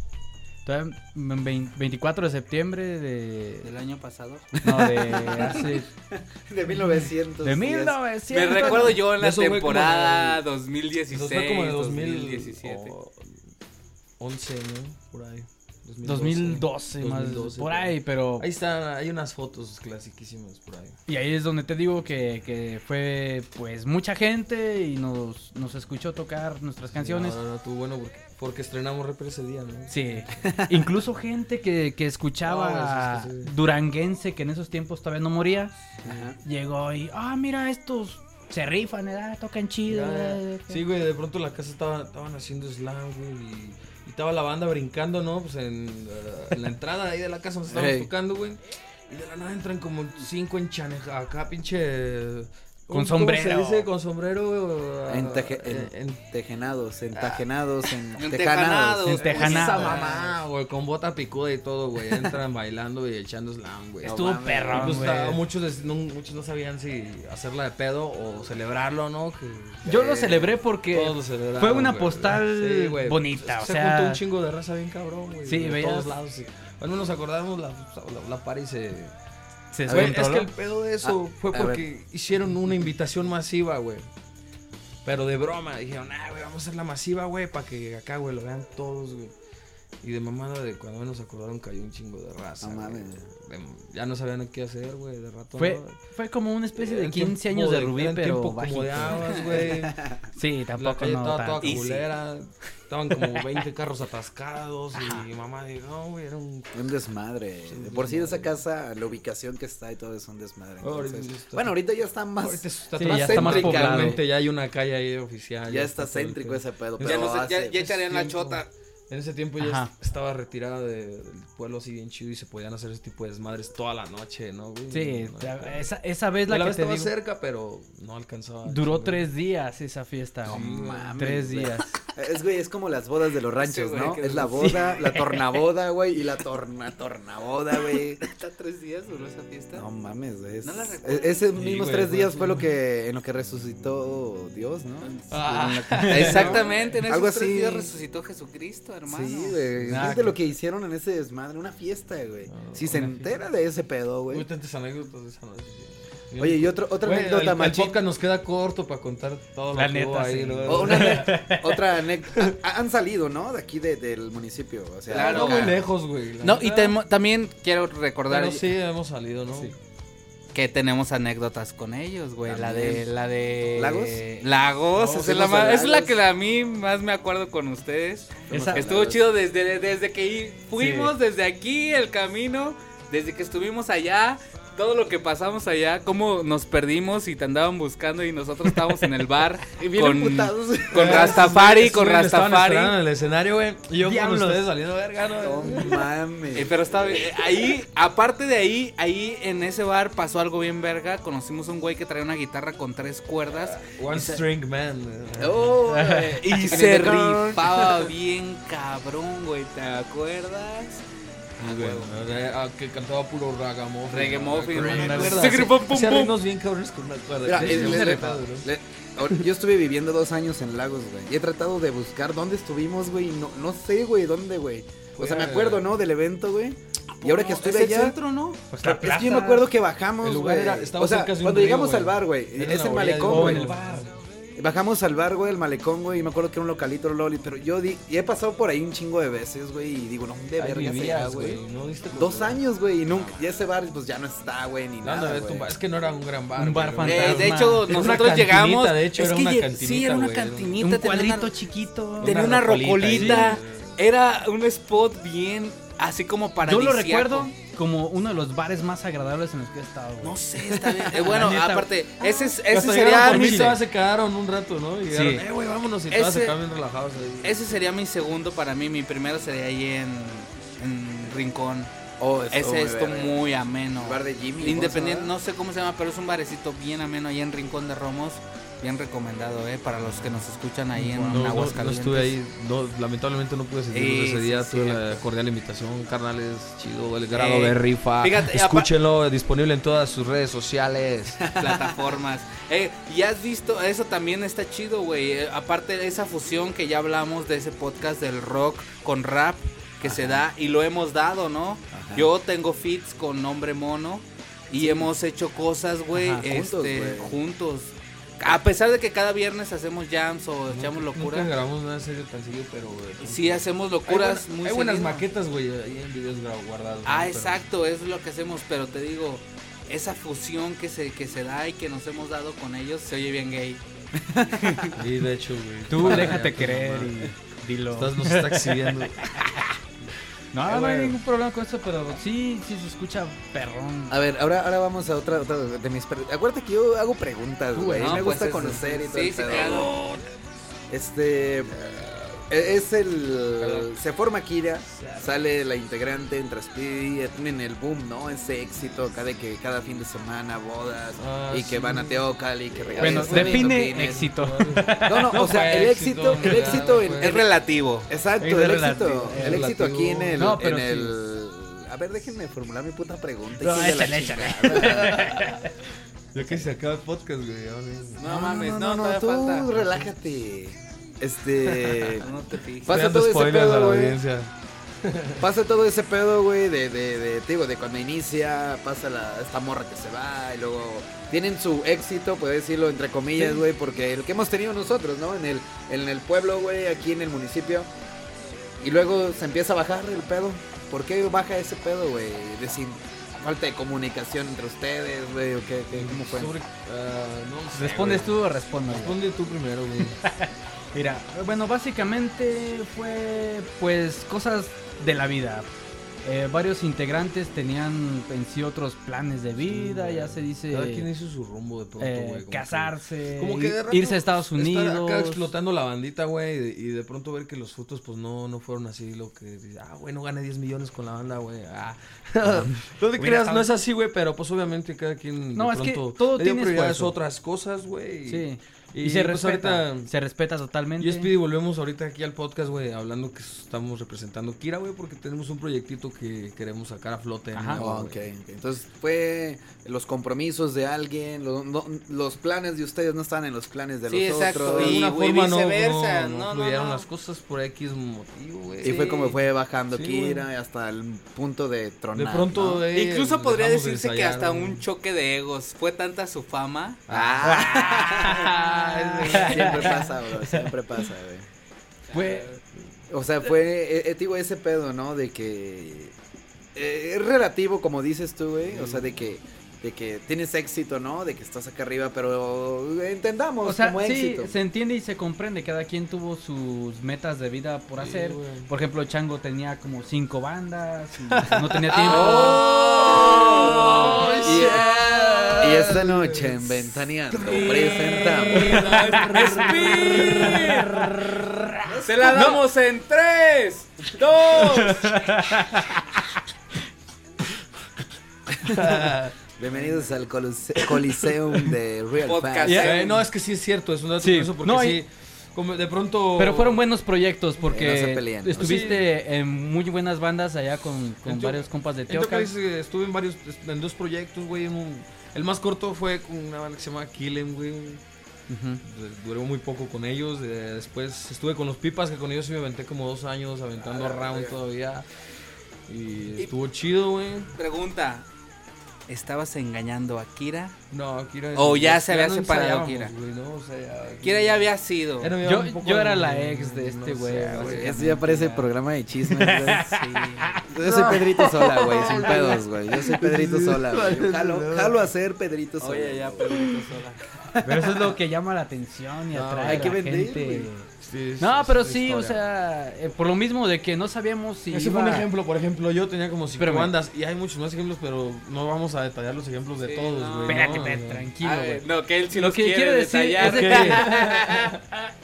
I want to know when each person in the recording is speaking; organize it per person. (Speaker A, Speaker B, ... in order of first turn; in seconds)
Speaker A: 0.6-3.7, 4.6-5.9, 7.4-9.0, 16.0-18.5, 21.1-27.4, 29.9-35.7, 36.4-40.8, 52.9-53.9, 59.0-60.0, 64.0-65.4, 69.8-74.2, 75.4-76.2, 79.7-80.5, 95.6-99.6, 100.3-101.8, 112.9-114.2, 119.6-119.9, 124.9-127.1, 128.6-131.9, 134.6-135.3, 146.0-146.5, 149.9-150.3, 159.7-161.8, 178.5-178.8, 180.8-181.1, 194.0-194.7, 205.8-206.7, 214.8-215.6, 217.5-218.3, 228.7-229.7, 233.2-233.9, 246.6-248.0, 250.8-252.5, 253.1-253.6, 256.6-260.4, 261.1-261.9, 263.3-263.7, 265.1-265.4, 281.0-281.5, 306.1-306.4, 325.9-329.6, 330.5-334.2, 337.7-338.6, 353.0-355.5, 358.4-359.7, 360.4-361.2, 363.6-365.7, 397.7-399.2, 400.2-405.7, 406.2-411.1, 412.0-415.5, 422.4-423.7, 425.5-427.1, 428.3-431.3, 437.5-437.8, 457.4-460.7, 462.1-462.5, 473.6-482.6, 488.6-491.6, 494.8-495.9, 502.6-503.0, 504.2-505.0, 506.4-512.5, 518.5-518.8, 535.4-538.7, 539.2-542.3, 547.6-555.3, 556.6-556.9, 560.5-564.3
Speaker B: 3.6-4.5, 8.3-12.9, 58.2-60.3, 101.6-102.0, 117.0-118.7, 133.6-134.9, 138.2-139.8, 140.6-141.5, 145.0-149.7, 165.1-165.8, 166.4-168.7, 170.5-193.0, 196.5-204.4, 206.5-211.0, 211.6-212.2, 214.1-216.3, 217.7-218.2, 227.2-228.6, 247.0-251.6, 252.2-257.5, 260.2-263.8, 266.1-266.6, 267.4-271.9, 272.5-282.3, 283.9-285.0, 287.3-288.9, 291.5-311.5, 313.2-315.2, 317.0-323.8, 324.5-325.0, 338.0-339.9, 357.1-358.1, 368.2-369.8, 372.2-373.0, 444.1-447.1, 452.9-457.0, 462.1-462.4, 481.9-485.9, 487.4-491.0, 492.0-495.3, 502.2-503.2, 527.6-528.2, 529.1-530.8, 531.5-533.1, 534.2-535.3, 539.8-540.6, 545.8-547.2, 559.8-560.8, 561.4-565.0
Speaker C: 4.6-8.0, 30.4-30.8, 36.0-36.4, 47.7-48.1, 55.1-59.2, 64.0-65.1, 69.8-70.5, 79.9-80.2, 81.0-81.8, 92.6-93.3, 99.6-99.9, 106.7-114.2, 115.7-117.8, 130.5-138.2, 139.7-147.9, 149.1-154.4, 156.4-158.0, 160.7-165.8, 172.4-173.1, 173.7-174.2, 175.0-176.2, 178.5-179.2, 189.8-191.5, 195.4-196.9, 205.4-208.1, 215.1-215.6, 217.4-228.2, 228.8-233.7, 234.6-241.6, 242.1-245.7, 272.2-273.4, 274.0-275.3, 291.4-292.0, 300.0-300.5, 301.9-302.3, 304.7-305.1, 306.4-307.4, 324.2-324.9, 334.1-339.9, 340.9-341.7, 342.5-354.2, 355.0-357.5, 358.1-365.4, 368.2-372.3, 372.9-374.2, 375.4-387.9, 388.8-396.5, 437.8-445.1, 448.8-452.8, 457.1-458.6, 459.2-461.4, 463.1-466.1, 466.7-474.6, 482.1-484.9, 485.6-488.9, 491.9-492.6, 498.6-499.0, 499.6-502.9, 507.7-508.9, 523.8-524.5, 537.5-539.9, 540.7-546.6, 547.5-547.9, 549.6-550.7
Speaker D: 8.7-10.4, 11.1-13.3, 14.2-21.0, 26.9-30.0, 32.4-33.5, 39.9-56.2, 57.1-57.4, 59.2-69.8, 70.9-79.1, 79.9-84.0, 85.0-89.3, 90.0-96.0, 96.8-100.2, 100.8-106.8, 107.7-108.5, 110.8-111.8, 112.4-125.8, 126.5-129.3, 130.4-131.2, 141.5-142.7, 145.3-146.9, 149.9-150.2, 152.5-153.3, 154.3-161.4, 165.1-167.0, 168.3-169.7, 190.9-196.1, 203.6-205.8, 211.6-218.7, 225.2-225.8, 230.2-234.1, 240.6-242.6, 245.0-250.8, 252.2-254.0, 262.6-267.6, 281.2-291.5, 310.7-317.6, 324.9-327.3, 327.9-329.4, 330.6-331.2, 339.5-340.3, 341.7-342.6, 343.6-343.9, 344.9-345.3, 351.2-357.4, 359.3-360.6, 364.8-365.7, 366.3-368.3, 371.8-372.1, 372.9-374.5, 375.0-375.4, 395.9-400.2, 409.6-430.1, 431.0-438.2, 444.6-449.4, 449.9-450.4, 452.1-454.8, 457.1-460.0, 468.7-469.2, 478.0-478.7, 481.3-492.6, 498.6-499.4, 502.8-506.8, 508.5-509.1, 511.2-518.0, 518.8-525.0, 525.9-527.5, 530.9-538.0, 540.8-545.0, 549.3-550.0, 551.0-552.4, 554.7-561.3, 563.4-564.8